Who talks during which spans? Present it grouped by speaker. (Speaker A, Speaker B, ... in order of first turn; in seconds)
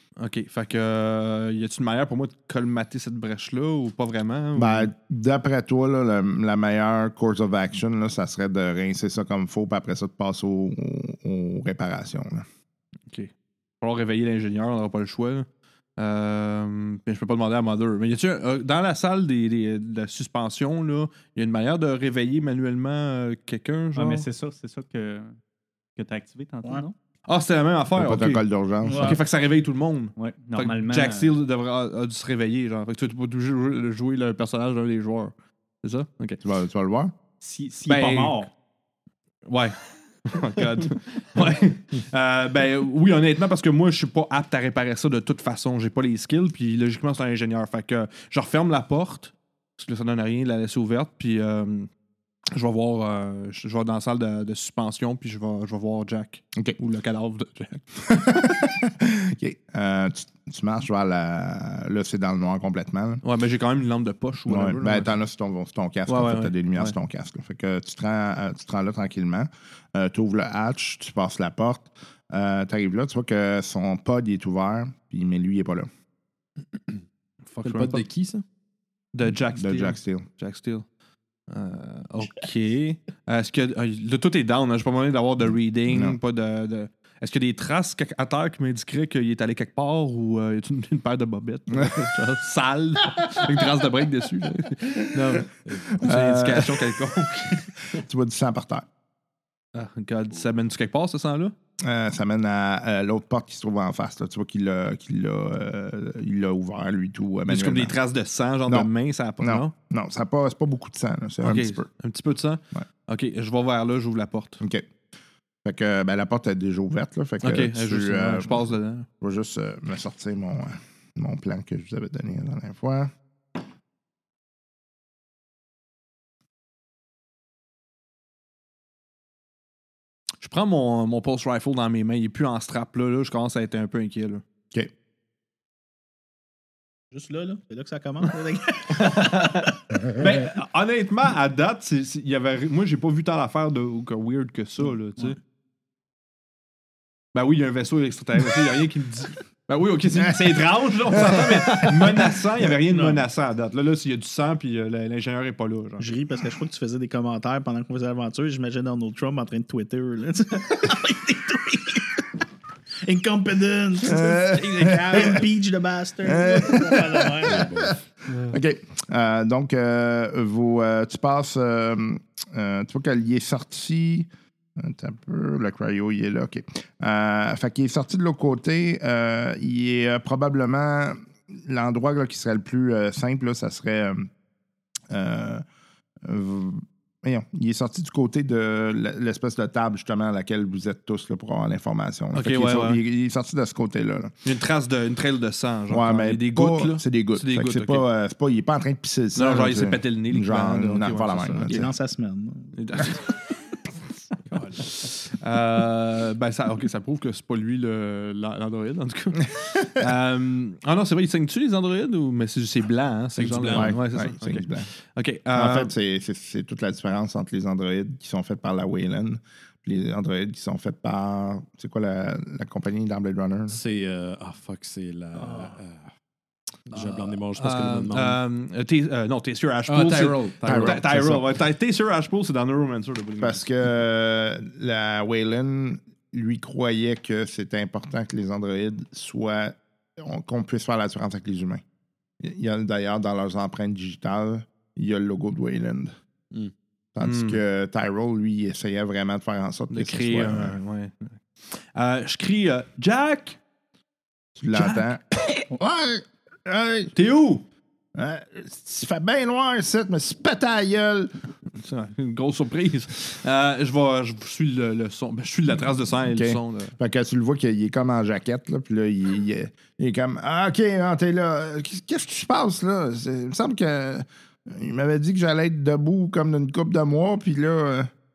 Speaker A: 0.2-4.9, 13.1-24.2, 27.3-36.4, 37.9-38.4, 39.5-51.9, 52.5-57.9, 63.2-65.1, 66.1-66.9, 77.5-78.0, 79.1-80.8, 81.5-97.8, 99.8-101.5, 107.5-109.7, 111.4-114.6, 117.4-119.1, 130.4-134.4, 139.0-145.4, 147.3-156.1, 192.3-193.0, 194.4-198.1, 199.3-201.8, 202.8-203.4, 204.5-215.9, 225.4-225.7, 226.9-233.7, 247.2-247.6, 249.9-253.6, 257.1-257.7, 261.8-266.9
Speaker B: 4.6-12.5, 27.9-29.2, 36.4-37.1, 58.1-63.2, 64.5-75.9, 79.5-80.3, 85.9-86.2, 95.1-95.4, 96.0-97.0, 97.9-98.9, 101.8-108.0, 109.4-111.9, 114.6-114.9, 115.7-123.1, 151.1-152.1, 164.0-165.4, 166.2-184.3, 185.1-185.6, 186.2-194.4, 195.9-201.9, 213.7-214.9, 215.5-223.8, 230.7-231.4, 233.4-241.8, 242.4-246.1, 247.2-250.8, 254.6-257.1, 258.1-261.3, 266.2-278.1
Speaker C: 23.9-25.4, 26.0-26.9, 30.2-31.3, 37.4-38.5
Speaker D: 28.8-29.2, 137.1-139.7, 152.9-153.2, 156.0-162.3, 163.0-167.7, 201.7-202.8
Speaker E: 77.6-78.4, 95.7-96.1, 167.5-168.0, 213.3-214.0, 223.7-226.1, 226.9-228.4, 229.9-231.5